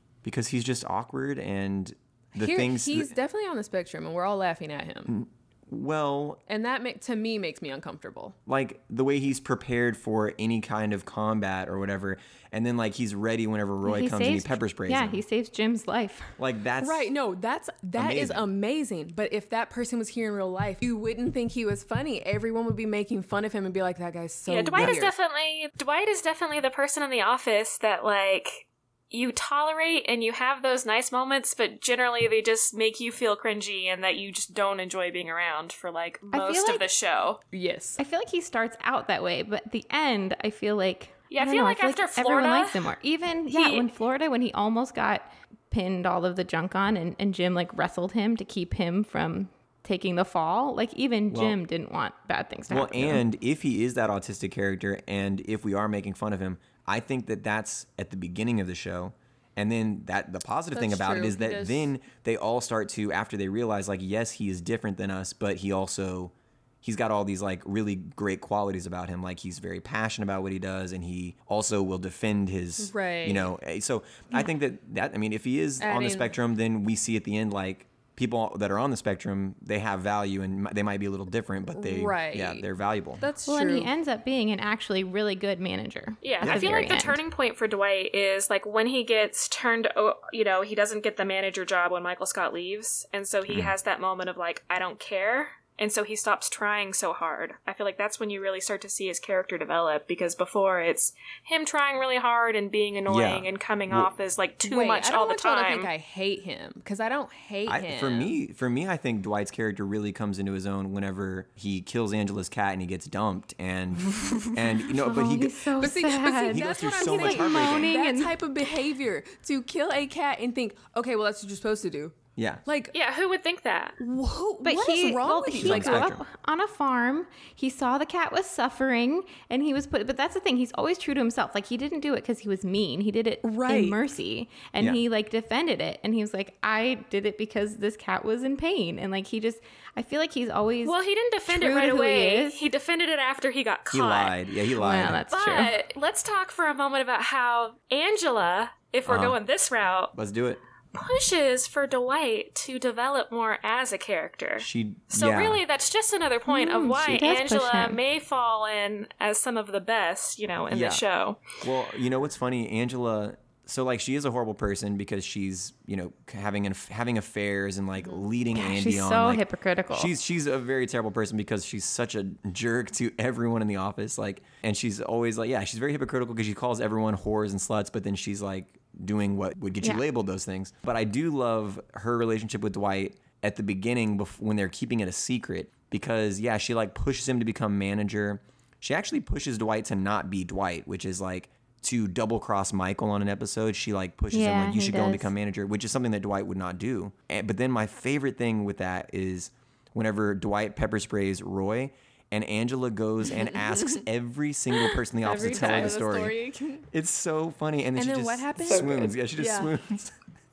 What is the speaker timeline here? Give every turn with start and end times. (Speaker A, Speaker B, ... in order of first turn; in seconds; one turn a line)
Speaker A: 0.2-3.1
Speaker B: 2.4-5.1
Speaker A: 5.1-6.4
Speaker B: 6.5-8.4
Speaker A: 8.5-15.2
Speaker C: 13.8-16.3
Speaker A: 16.4-17.1
Speaker B: 16.8-25.1
Speaker A: 17.9-18.4
Speaker D: 24.5-37.4
Speaker C: 36.3-36.9
Speaker B: 37.5-38.0
Speaker C: 38.0-53.2
Speaker D: 41.3-42.9
Speaker D: 43.5-43.9
Speaker A: 51.3-51.6
Speaker A: 52.7-83.2
Speaker B: 60.7-61.9
Speaker B: 72.8-73.5
Speaker B: 75.8-76.3
Speaker B: 81.7-82.7
Speaker B: 83.2-83.9
Speaker C: 83.5-87.2
Speaker D: 86.2-105.9
Speaker A: 86.4-86.9
Speaker A: 103.1-104.1
Speaker B: 104.6-108.3
Speaker A: 107.7-115.6
Speaker C: 114.2-118.3
Speaker B: 115.8-123.0
Speaker A: 116.5-117.9
Speaker A: 122.4-122.6
Speaker D: 122.9-124.0
Speaker B: 124.0-126.1
Speaker C: 124.6-142.6
Speaker A: 125.5-126.3
Speaker B: 133.4-134.0
Speaker D: 140.8-144.4
Speaker A: 143.9-145.2
Speaker C: 144.8-145.7
Speaker D: 145.3-150.1
Speaker A: 149.1-149.4
Speaker A: 150.2-150.6
Speaker D: 150.9-161.5
Speaker A: 154.6-155.6
Speaker C: 156.5-158.0
Speaker A: 160.7-161.0
Speaker A: 161.6-206.3
Speaker C: 168.5-170.1
Speaker C: 194.3-195.3
Speaker B: 203.3-204.0
Speaker B: 204.8-206.9
Speaker A: 206.9-210.1
Speaker B: 208.0-209.7